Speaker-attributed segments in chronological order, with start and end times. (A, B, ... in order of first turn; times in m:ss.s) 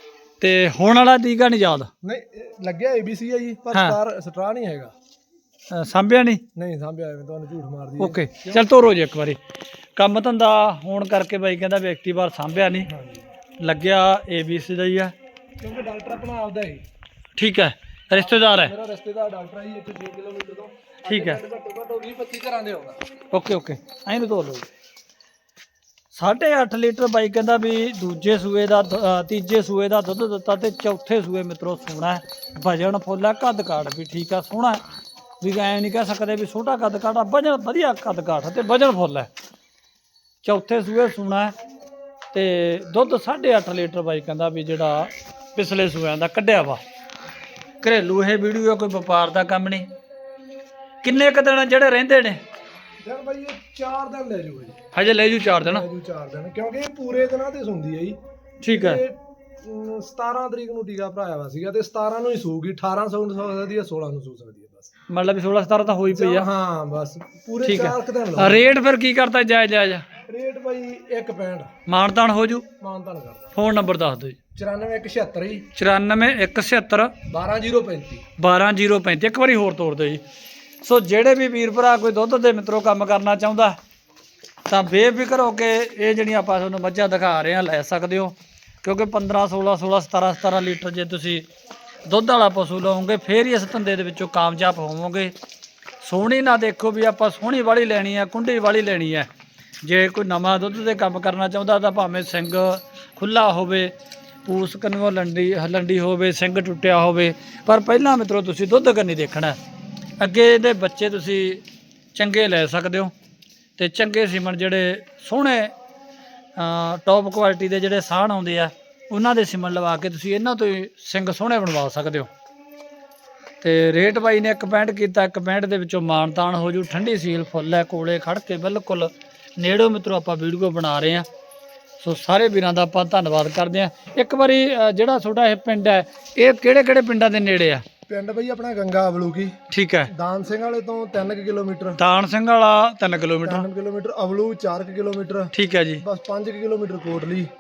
0:00.4-0:01.9 A
0:02.0-0:04.9 B
0:05.7-0:06.4 A
0:06.5-0:08.7 B
0:08.0-0:09.4 A
0:10.0-0:12.9 A
0:12.9-0:13.3 B
0:13.6-0:15.1 A
0:15.6-0:16.8 B
0:17.4-0:18.7 A
0:18.1-0:23.0 B
0:21.0-0:21.4 A
0:23.3-0:24.7 A
0:26.1-0:34.8 A
0:35.4-0:39.3 A
0:40.4-0:41.5 A
0:42.3-0:46.8 A
0:47.8-0:49.8 A
0:51.0-0:52.4 A
0:53.0-0:54.8 B
0:54.9-0:55.8 A
0:55.6-0:58.2 B
0:58.6-0:59.0 A
0:58.7-1:04.9 B
1:05.1-1:06.5 A
1:06.1-1:08.7 B
1:07.6-1:10.0 A
1:10.3-1:11.7 B
1:11.8-1:12.6 A
1:12.8-1:13.5 B
1:13.5-1:14.4 A
1:14.5-1:15.7 B
1:15.7-1:17.2 A
1:17.3-1:18.2 B
1:18.4-1:20.2 A
1:20.8-1:23.8 A
1:24.7-1:31.5 A
1:32.0-1:35.3 A
1:36.0-1:39.3 A
1:39.8-1:43.9 A
1:44.4-1:49.6 A
1:50.2-1:51.6 A
1:52.1-1:53.1 A
1:53.8-1:55.7 A
1:56.6-2:02.3 A
2:03.6-2:11.2 A
2:12.0-2:17.8 A
2:18.1-2:19.6 B
2:19.7-2:20.1 A
2:20.1-2:22.0 B
2:22.0-2:23.7 A
2:23.4-2:27.5 B
2:25.5-2:26.0 A